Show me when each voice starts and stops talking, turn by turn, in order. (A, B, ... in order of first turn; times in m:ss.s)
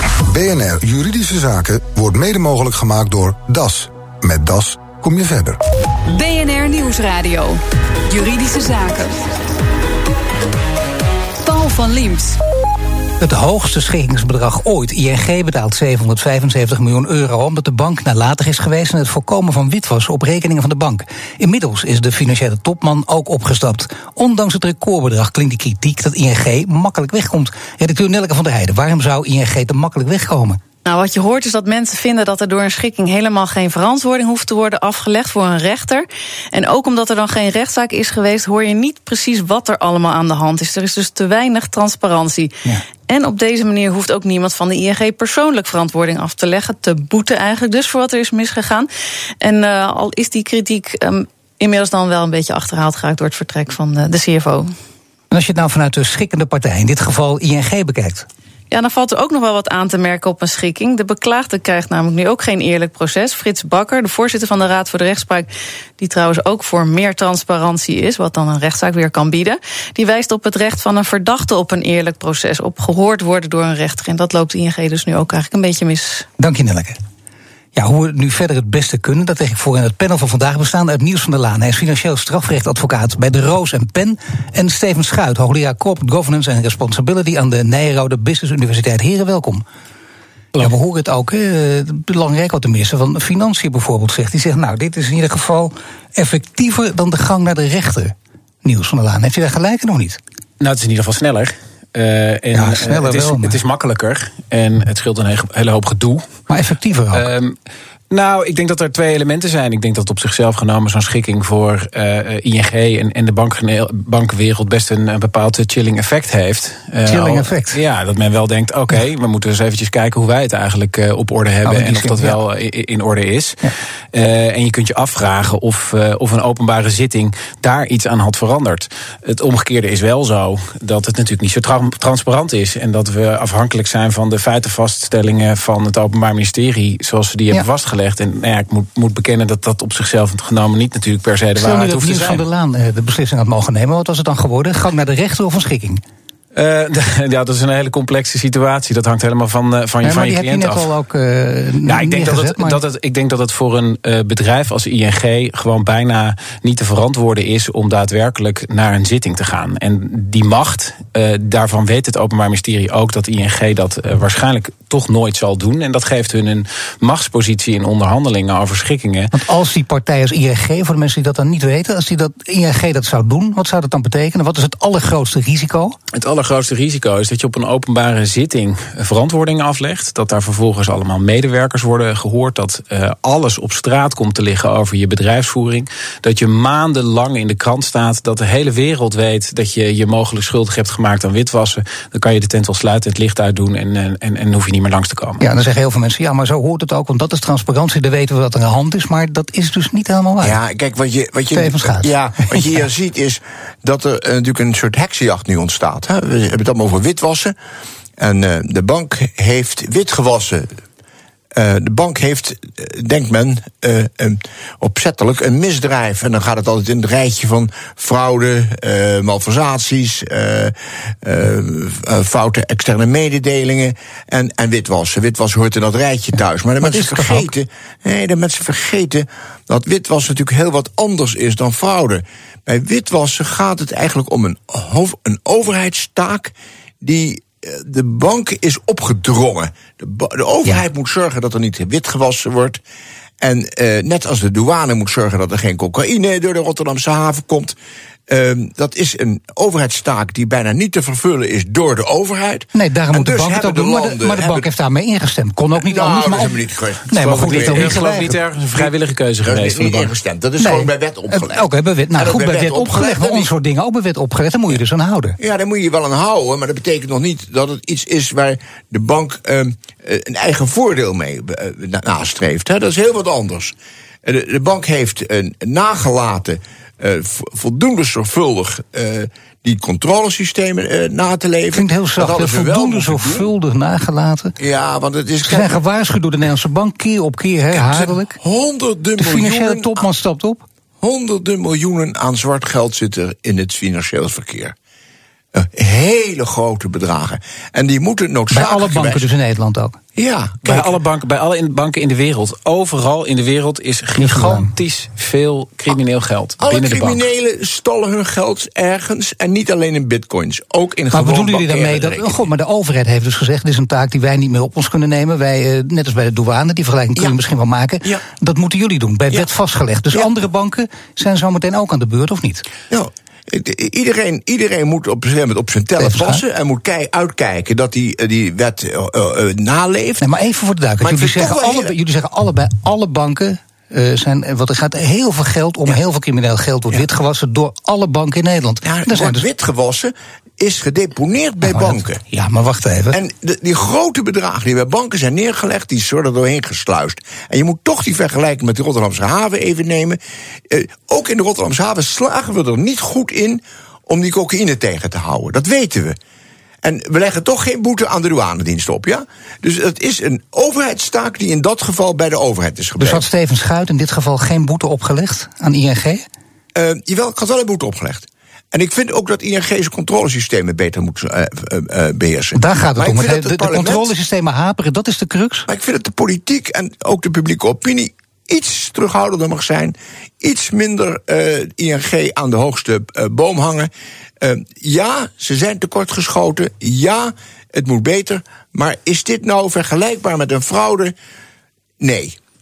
0:00.3-0:05.6 A
0:06.1-0:09.2 B
0:11.4-0:12.4 B
0:13.2-0:30.6 C
0:30.8-0:48.9 D
0:49.4-0:54.7 D
0:55.3-0:58.3 C
0:58.7-1:05.5 D
1:06.0-1:16.3 D
1:16.4-1:17.0 C
1:17.8-1:29.6 C
1:30.6-1:40.2 C
1:40.6-1:46.2 E
1:42.5-1:43.6 C
1:46.5-1:47.3 C
1:47.1-1:47.6 E
1:48.1-2:22.4 E
1:57.1-1:57.8 C
2:01.6-2:02.4 C
2:21.6-2:26.0 C
2:26.6-2:30.9 E
2:30.0-2:32.8 C
2:31.8-2:49.3 E
2:49.3-2:56.0 C
2:56.1-3:15.4 E
3:15.4-3:20.6 C
3:20.4-3:27.6 F
3:21.5-3:22.6 C
3:28.2-3:30.8 F
3:31.5-4:02.8 F
3:46.8-3:47.5 C
4:03.4-4:07.8 F
4:08.3-4:14.7 F
4:12.8-4:16.6 C
4:15.7-4:18.0 F
4:17.1-4:18.4 C
4:17.2-4:20.1 E
4:19.4-4:21.6 F
4:20.6-4:25.4 C
4:22.2-4:23.5 F
4:25.4-4:43.5 F
4:41.7-4:44.6 C
4:44.6-4:45.8 F
4:45.4-4:48.4 C
4:47.7-4:50.1 F
4:49.2-4:50.7 C
4:51.0-4:54.8 F
4:55.5-4:59.3 F
4:58.5-5:00.0 C
5:00.2-5:01.0 F
5:00.6-5:07.2 E
5:04.2-5:04.7 C
5:06.6-5:12.4 F
5:11.1-5:22.6 C
5:22.9-5:30.3 F
5:26.0-5:26.4 C
5:30.2-5:39.5 C
5:31.0-5:31.9 F
5:38.8-5:42.2 F
5:41.6-5:43.2 C
5:43.1-5:56.2 F
5:56.8-6:03.2 F
6:03.0-6:06.2 C
6:06.8-6:14.1 F
6:12.6-6:15.7 C
6:15.7-6:31.1 F
6:32.0-6:32.4 F